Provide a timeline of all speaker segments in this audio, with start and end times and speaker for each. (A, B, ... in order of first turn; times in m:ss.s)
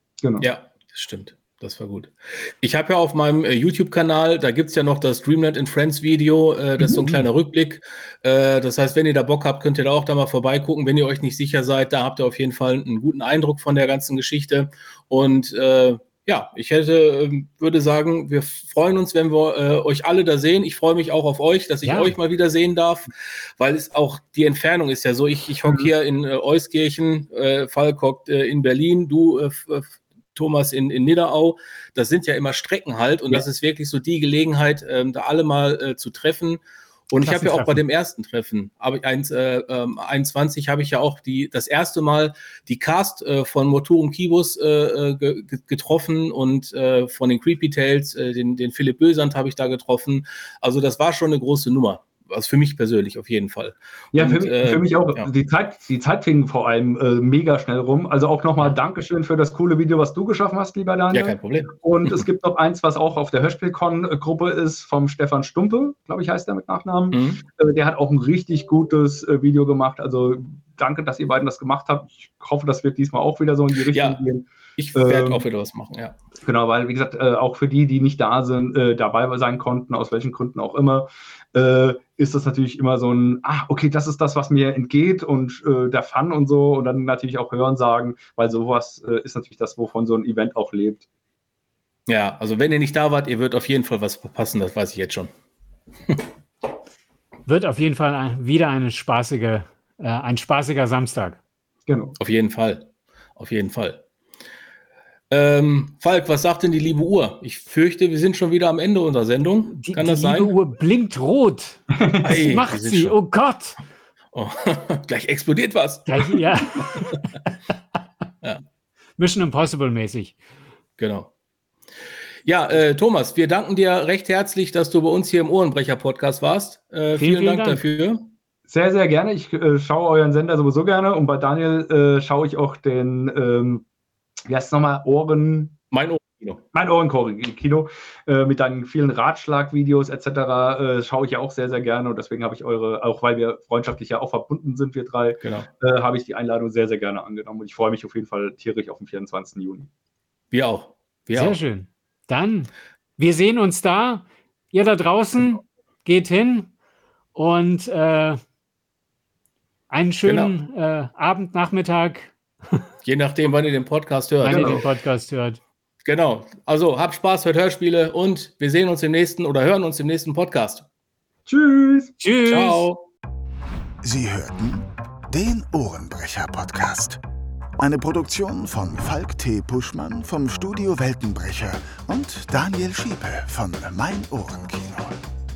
0:00.2-0:00.5 A
0:00.4-0:55.3 B
0:07.0-0:07.3 C
0:21.8-0:22.1 C
0:25.6-0:25.9 A
0:37.2-0:37.8 C
0:54.1-1:15.4 A
1:01.1-1:02.2 B
1:07.1-1:07.4 B
1:13.9-1:14.2 B
1:14.8-1:16.2 B
1:16.4-1:31.0 A
1:32.1-1:35.3 B
1:37.4-1:41.4 C
1:41.9-1:42.2 A
1:42.2-1:44.0 B
1:45.3-1:50.5 B
1:49.8-1:53.8 C
1:52.0-1:52.4 A
1:52.2-1:53.1 B
1:54.3-1:56.4 B
1:56.1-1:57.2 C
1:59.2-2:00.4 C
2:01.0-2:01.3 B
2:02.4-2:08.3 B
2:07.2-2:07.8 C
2:08.7-2:13.8 A
2:14.5-2:15.7 A
2:15.9-2:16.6 B
2:16.7-2:29.9 A
2:25.4-2:25.7 B
2:30.5-2:31.6 B
2:31.3-2:36.7 C
2:37.3-2:38.4 C
2:39.9-2:42.8 C
2:40.2-2:40.5 B
2:43.0-2:44.8 B
2:44.4-2:45.6 C
2:44.4-2:44.8 A
2:46.0-2:50.8 B
2:51.5-2:52.1 A
2:52.2-2:52.8 C
2:52.4-2:53.0 B
2:54.0-2:57.2 D
2:57.8-3:05.2 D